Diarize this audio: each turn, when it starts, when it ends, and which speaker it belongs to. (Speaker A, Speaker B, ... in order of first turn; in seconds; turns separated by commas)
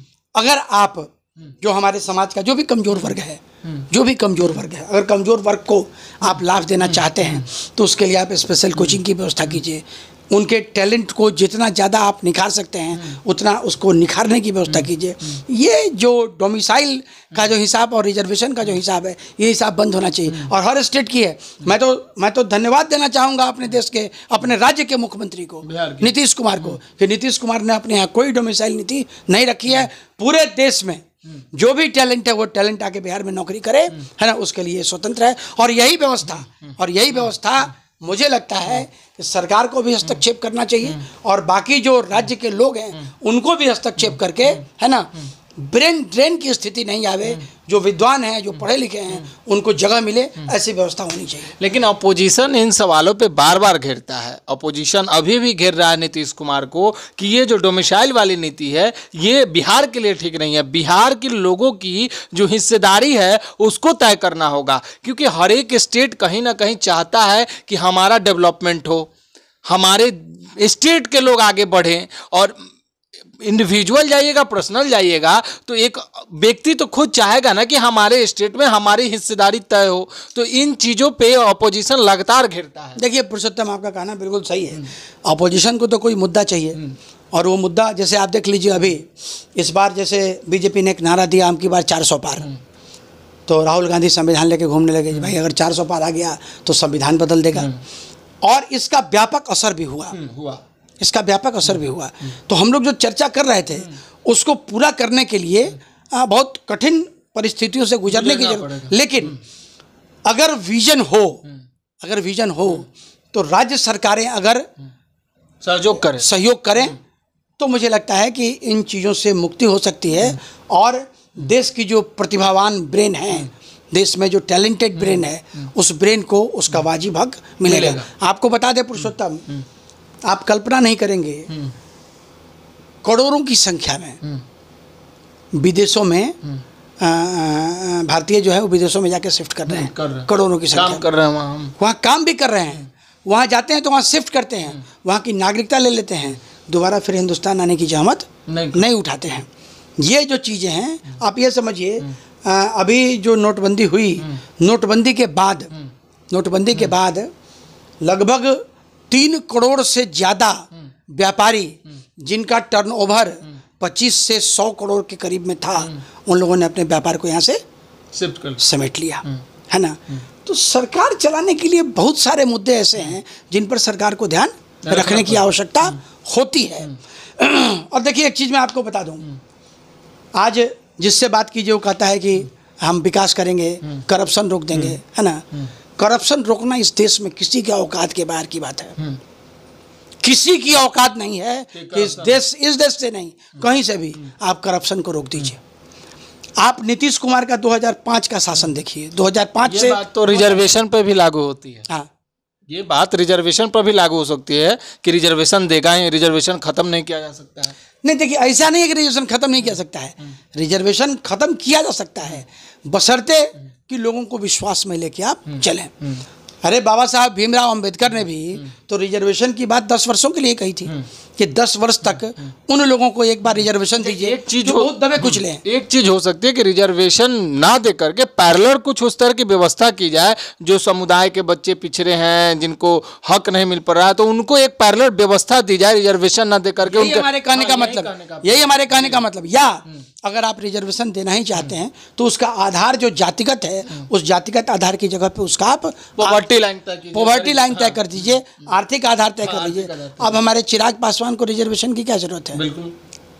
Speaker A: 0.3-51.5, Speaker B: 6.8-7.5, Speaker B: 25.6-26.7, Speaker B: 51.6-69.1, Speaker B: 69.7-72.5, Speaker B: 73.4-83.0, Speaker A: 83.0-86.8, Speaker A: 87.3-92.5, Speaker A: 93.5-97.7, Speaker A: 98.4-100.2, Speaker B: 100.1-100.6, Speaker A: 101.0-109.4, Speaker B: 108.1-109.4, Speaker A: 110.3-111.4, Speaker A: 112.0-114.7, Speaker B: 115.6-116.3, Speaker A: 116.1-117.0, Speaker A: 117.6-129.4, Speaker B: 125.0-125.2, Speaker B: 127.6-128.1, Speaker A: 130.3-131.5, Speaker A: 133.0-134.2, Speaker A: 135.5-136.4, Speaker A: 137.0-141.1, Speaker B: 139.7-141.7, Speaker A: 141.8-155.7, Speaker B: 148.5-148.9, Speaker A: 156.3-157.3, Speaker A: 158.0-167.6, Speaker B: 168.1-168.6, Speaker A: 168.6-179.2, Speaker B: 174.9-175.5, Speaker A: 180.3-185.4, Speaker A: 186.0-188.9, Speaker A: 190.2-195.6, Speaker B: 191.7-192.4, Speaker A: 196.6-200.7, Speaker B: 199.7-201.9, Speaker B: 202.7-207.8, Speaker A: 208.0-215.9, Speaker A: 216.6-225.6, Speaker B: 224.0-239.2, Speaker A: 236.9-246.5, Speaker B: 246.2-248.3, Speaker A: 247.1-252.6, Speaker B: 249.4-250.4, Speaker B: 252.5-252.9